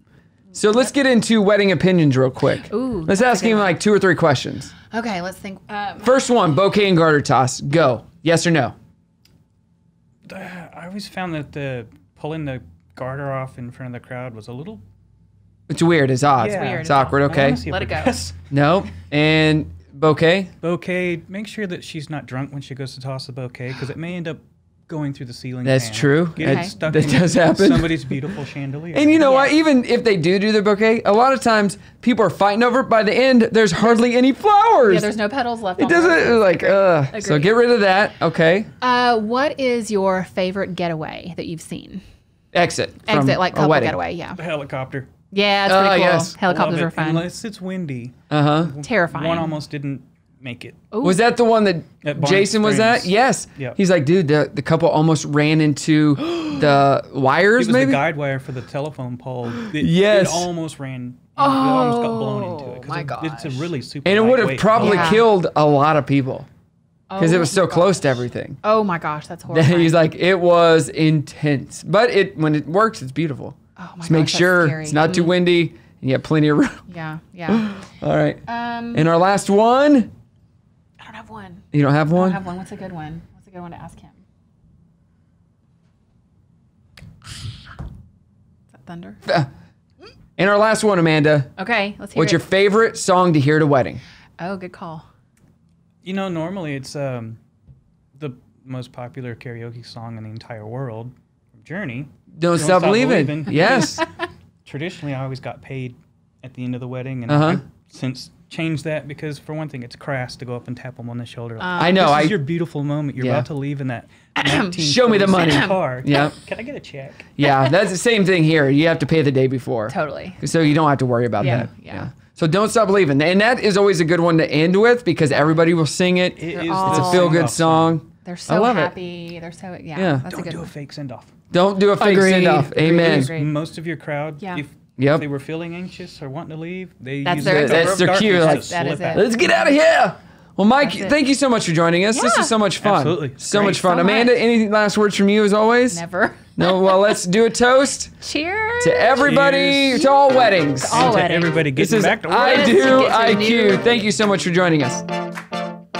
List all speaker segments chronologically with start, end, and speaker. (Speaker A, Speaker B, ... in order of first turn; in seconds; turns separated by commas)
Speaker A: 0.5-4.7, Speaker B: 2.7-3.8, Speaker B: 4.9-6.2, Speaker A: 6.0-8.8, Speaker C: 10.2-14.8, Speaker A: 15.7-17.6, Speaker C: 16.4-18.4, Speaker B: 16.5-18.2, Speaker A: 18.5-20.5, Speaker C: 20.6-29.3, Speaker A: 25.6-28.2, Speaker B: 26.4-26.7, Speaker A: 28.9-35.1, Speaker B: 29.2-29.5, Speaker B: 34.8-37.5, Speaker A: 35.8-38.7, Speaker B: 38.8-42.0, Speaker A: 42.5-44.0, Speaker B: 43.0-44.4, Speaker C: 44.4-45.1, Speaker B: 45.3-47.2, Speaker A: 45.7-46.4, Speaker C: 46.4-50.9, Speaker A: 48.3-48.7, Speaker B: 48.8-49.6, Speaker B: 50.9-51.2, Speaker A: 51.0-58.0, Speaker C: 52.0-53.8, Speaker C: 57.6-65.2, Speaker A: 59.6-60.5, Speaker B: 61.4-63.0, Speaker A: 62.9-66.5, Speaker B: 64.8-65.2, Speaker B: 67.1-70.0, Speaker A: 67.2-68.6, Speaker A: 69.5-76.8, Speaker B: 73.8-75.3, Speaker B: 76.9-77.9, Speaker A: 77.5-80.1, Speaker B: 78.5-79.1, Speaker B: 81.0-84.2, Speaker A: 81.7-82.4, Speaker B: 88.7-89.2, Speaker A: 89.2-89.5, Speaker A: 90.4-91.5, Speaker B: 91.6-92.4, Speaker A: 92.1-94.0, Speaker B: 94.4-95.0, Speaker C: 96.0-97.4, Speaker C: 98.2-104.1, Speaker A: 102.3-104.0, Speaker C: 104.6-117.3, Speaker A: 107.3-107.6, Speaker B: 111.6-112.1, Speaker A: 111.8-112.4, Speaker A: 113.2-113.5, Speaker B: 114.4-114.8, Speaker A: 114.8-116.3, Speaker B: 115.4-116.3, Speaker A: 117.4-128.9, Speaker B: 117.4-117.8, Speaker B: 119.9-120.4, Speaker B: 121.4-122.1, Speaker C: 121.4-121.7, Speaker C: 126.3-128.0, Speaker B: 126.5-127.5, Speaker B: 128.2-130.7, Speaker A: 129.9-130.2, Speaker C: 130.3-131.3, Speaker A: 131.5-133.3, Speaker B: 132.0-133.5, Speaker C: 132.0-139.3, Speaker A: 135.0-135.2, Speaker B: 137.2-139.7, Speaker A: 137.4-146.0, Speaker B: 140.8-141.2, Speaker B: 142.1-142.5, Speaker C: 142.8-143.8, Speaker B: 143.5-144.4, Speaker B: 145.9-147.0, Speaker A: 146.6-148.1, Speaker B: 148.2-149.4, Speaker A: 148.8-151.2, Speaker C: 149.2-150.1, Speaker B: 150.8-151.7, Speaker C: 150.9-152.9, Speaker A: 151.7-155.1, Speaker B: 152.3-153.9